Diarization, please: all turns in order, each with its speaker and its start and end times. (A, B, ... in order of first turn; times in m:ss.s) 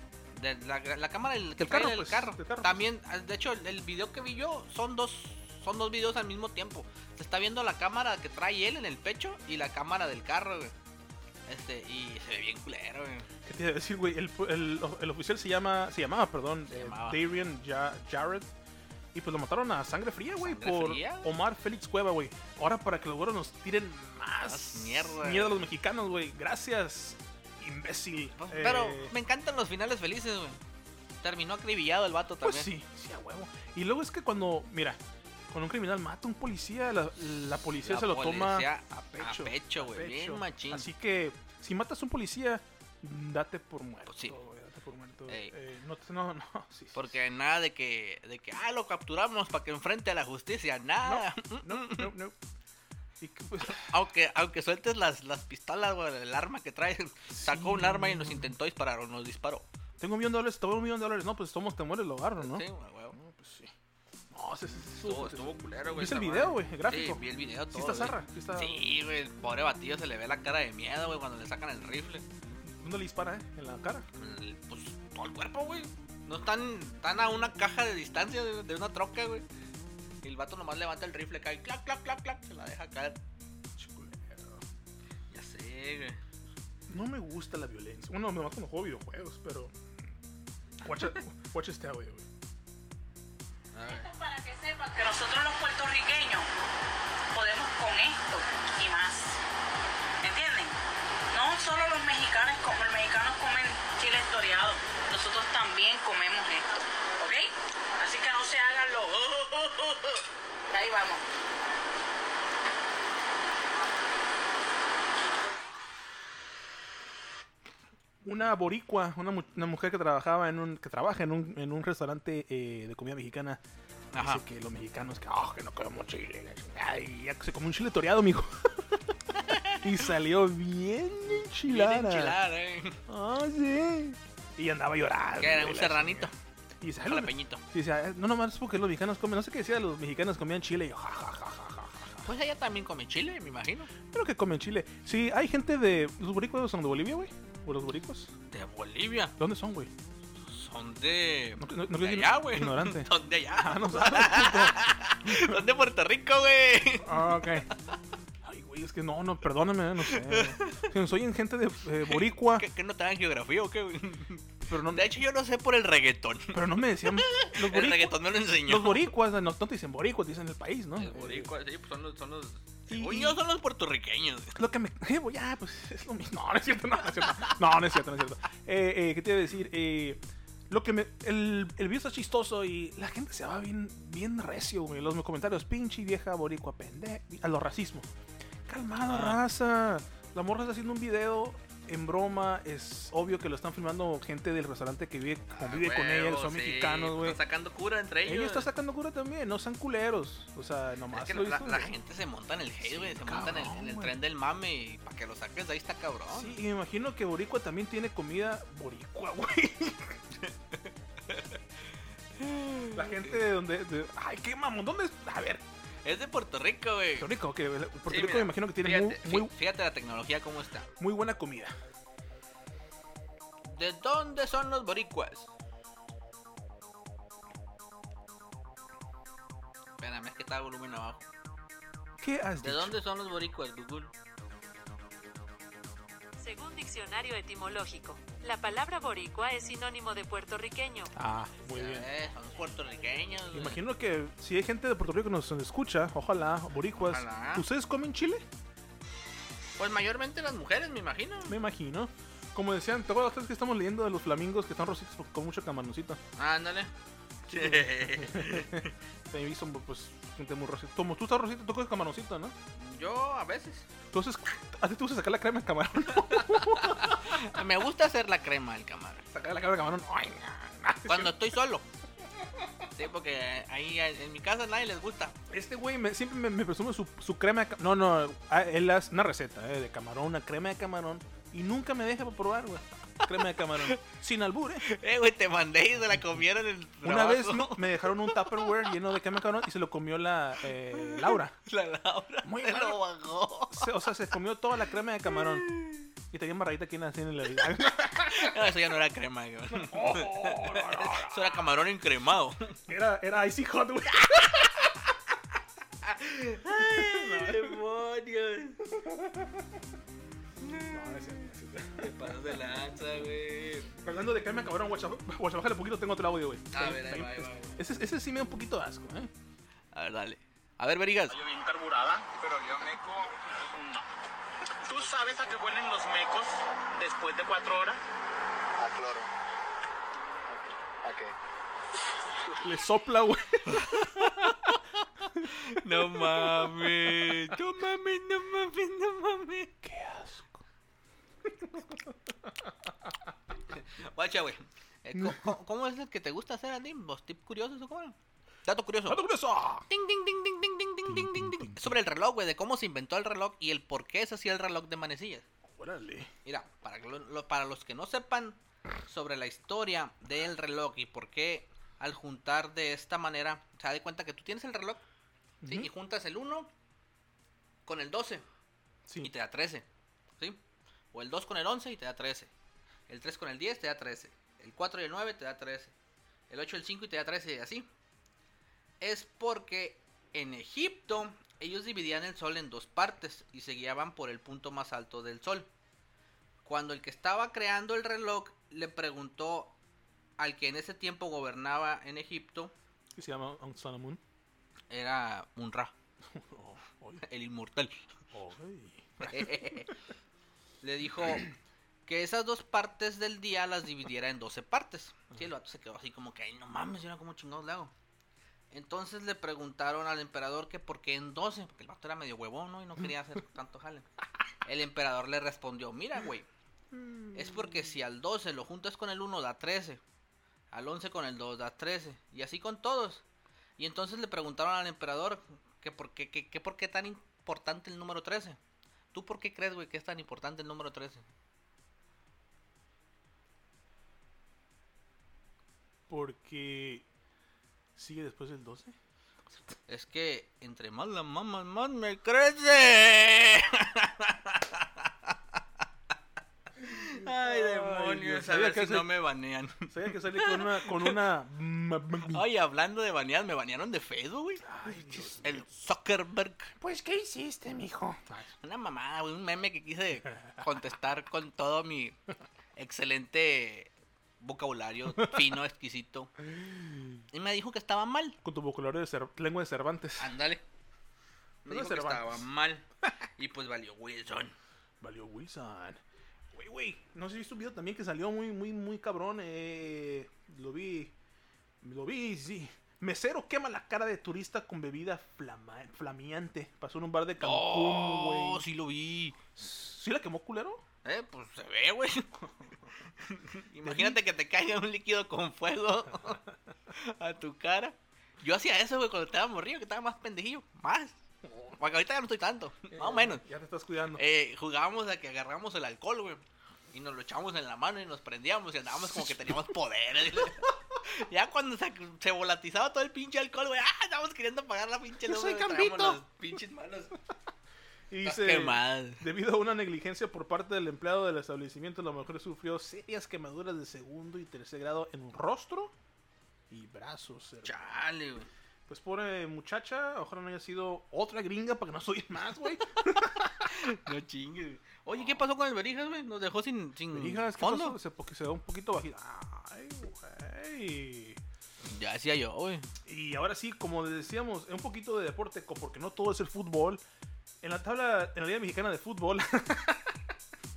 0:00.3-0:10.7 A
0:01.6-0:02.8 B
0:11.5-0:13.3 A
0:13.4-0:18.5 B
0:16.7-0:17.2 A
0:19.1-0:29.1 B
0:20.4-0:21.3 A
0:24.4-0:25.6 A
0:28.4-0:30.6 A
0:31.2-0:32.7 A
0:32.4-0:35.0 B
0:35.5-0:47.1 B
0:37.8-0:40.9 A
0:44.1-0:44.4 A
0:45.3-0:45.5 A
0:46.9-0:52.1 A
0:51.0-0:52.4 B
0:53.2-0:53.9 B
0:53.7-0:59.7 A
0:57.3-0:58.5 B
1:00.0-1:03.7 B
1:02.4-1:03.2 A
1:04.3-1:08.8 B
1:04.9-1:12.2 A
1:12.6-1:14.0 B
1:14.2-1:19.4 A
1:20.2-1:23.2 A
1:23.8-1:24.6 B
1:25.3-1:26.2 A
1:26.9-1:29.7 B
1:30.8-1:32.2 B
1:33.7-1:34.1 A
1:33.9-1:36.5 C
1:37.3-1:39.4 C
1:40.2-1:40.8 C
1:41.3-1:46.7 C
1:47.2-1:51.2 C
1:58.2-2:03.6 B
2:04.1-2:04.4 A
2:04.1-2:12.4 B
2:09.4-2:09.8 A
2:11.6-2:13.0 A
2:13.1-2:22.3 B
2:15.4-2:16.3 A
2:17.0-2:17.6 A
2:22.2-2:23.9 A
2:24.1-2:28.3 B
2:28.5-2:29.3 A
2:29.4-2:29.9 B
2:30.4-2:37.7 A
2:31.6-2:35.6 B
2:37.0-2:37.7 B
2:38.4-2:42.6 B
2:40.1-2:40.9 A
2:42.1-2:49.1 A
2:44.6-2:45.1 B
2:46.5-2:51.5 B
2:51.0-2:54.6 A
2:52.9-2:53.4 B
2:54.5-3:08.1 B
3:08.7-3:17.4 B
3:09.0-3:09.4 A
3:15.5-3:18.7 A
3:18.2-3:21.9 B
3:21.1-3:26.6 A
3:22.8-3:24.1 B
3:26.3-3:30.2 B
3:30.4-3:31.6 A
3:32.4-3:33.4 A
3:32.9-3:35.6 B
3:36.0-3:37.3 A
3:37.2-3:39.5 B
3:38.1-3:40.9 A
3:41.0-3:41.7 B
3:43.6-3:45.5 A
3:50.0-3:51.2 A
3:52.2-3:52.9 B
3:52.6-3:54.1 A
3:56.4-4:01.1 D
4:01.1-4:02.1 B
4:01.7-4:03.8 A
4:03.5-4:08.4 B
4:07.0-4:07.7 A
4:09.8-4:11.6 A
4:11.5-4:16.2 B
4:16.4-4:16.9 A
4:17.5-4:18.9 A
4:17.5-4:22.5 B
4:22.8-4:23.8 A
4:24.1-4:27.6 B
4:26.2-4:29.2 A
4:29.3-4:31.4 B
4:31.0-4:31.8 A
4:32.4-4:32.7 B
4:33.0-4:35.3 A
4:35.5-4:44.8 B
4:43.3-4:44.0 A
4:44.8-4:48.9 A
4:47.0-4:51.6 B
4:50.9-4:53.9 A
4:52.4-4:53.0 B
4:53.7-4:55.6 B
4:55.3-4:56.1 A
4:56.3-4:58.6 B
4:58.0-5:02.8 A
4:59.7-5:01.6 B
5:02.9-5:05.2 B
5:06.0-5:08.8 A
5:06.8-5:07.8 B
5:08.9-5:09.8 B
5:10.6-5:11.3 A
5:10.9-5:12.4 B
5:12.0-5:13.9 A
5:14.0-5:19.3 B
5:16.7-5:17.8 A
5:19.9-5:21.4 A
5:21.3-5:24.0 E
5:24.8-5:28.0 E
5:28.8-5:29.3 E
5:30.5-5:31.3 E
5:32.6-5:34.5 B
5:33.7-5:39.8 A
5:35.4-5:37.5 B
5:39.8-5:40.6 B
5:41.4-5:43.1 B
5:43.7-5:49.2 A
5:45.1-5:45.5 B
5:49.0-5:49.9 B
5:49.9-5:55.4 A
5:51.0-5:52.0 B
5:55.7-5:56.3 B
5:56.4-6:05.0 A
6:05.6-6:05.9 B
6:05.7-6:06.7 A
6:07.8-6:08.4 A
6:09.2-6:09.8 A
6:11.1-6:12.5 A
6:13.1-6:15.9 A
6:16.5-6:17.9 A
6:19.0-6:25.7 A
6:26.6-6:29.7 A
6:30.4-6:32.7 A
6:33.1-6:34.2 B
6:34.9-6:35.9 A
6:36.3-6:37.2 B
6:37.2-6:37.9 A
6:38.3-6:39.9 B
6:39.2-6:39.9 A
6:40.8-6:41.5 A
6:42.0-6:47.9 A
6:48.7-6:54.0 A
6:54.6-6:56.5 A
6:56.9-6:57.9 B
6:57.3-7:00.0 A
7:00.7-7:03.2 A
7:03.8-7:08.6 A
7:09.1-7:11.2 A
7:16.1-7:17.0 B
7:18.0-7:19.0 B
7:19.9-7:25.6 A
7:26.8-7:31.2 A
7:26.8-7:29.1 B
7:29.9-7:32.4 B
7:32.2-7:36.7 A
7:34.6-7:35.6 B
7:36.8-7:38.5 B
7:38.6-7:42.2 A
7:42.8-7:46.3 A
7:47.3-7:48.4 A
7:48.4-7:50.3 B
7:50.2-7:50.6 A
7:51.6-7:54.5 A
7:51.6-7:52.4 B
7:55.0-7:56.0 B
7:56.5-8:01.1 B
8:01.8-8:08.6 B
8:07.4-8:09.4 A
8:09.6-8:10.8 B
8:11.0-8:12.4 A
8:13.2-8:21.1 A
8:13.8-8:14.2 B
8:21.5-8:21.7 B
8:21.8-8:23.4 A
8:22.9-8:24.2 B
8:24.2-8:37.1 A
8:29.1-8:29.6 B
8:30.4-8:30.7 B
8:35.2-8:36.2 B
8:38.1-8:45.9 B
8:38.2-8:39.2 A
8:46.7-8:47.7 B
8:47.6-8:48.5 A
8:48.9-8:53.9 B
8:53.6-8:58.0 A
8:55.2-8:55.4 B
8:57.1-9:01.4 B
9:01.8-9:02.9 A
9:03.0-9:07.0 B
9:07.6-9:10.1 B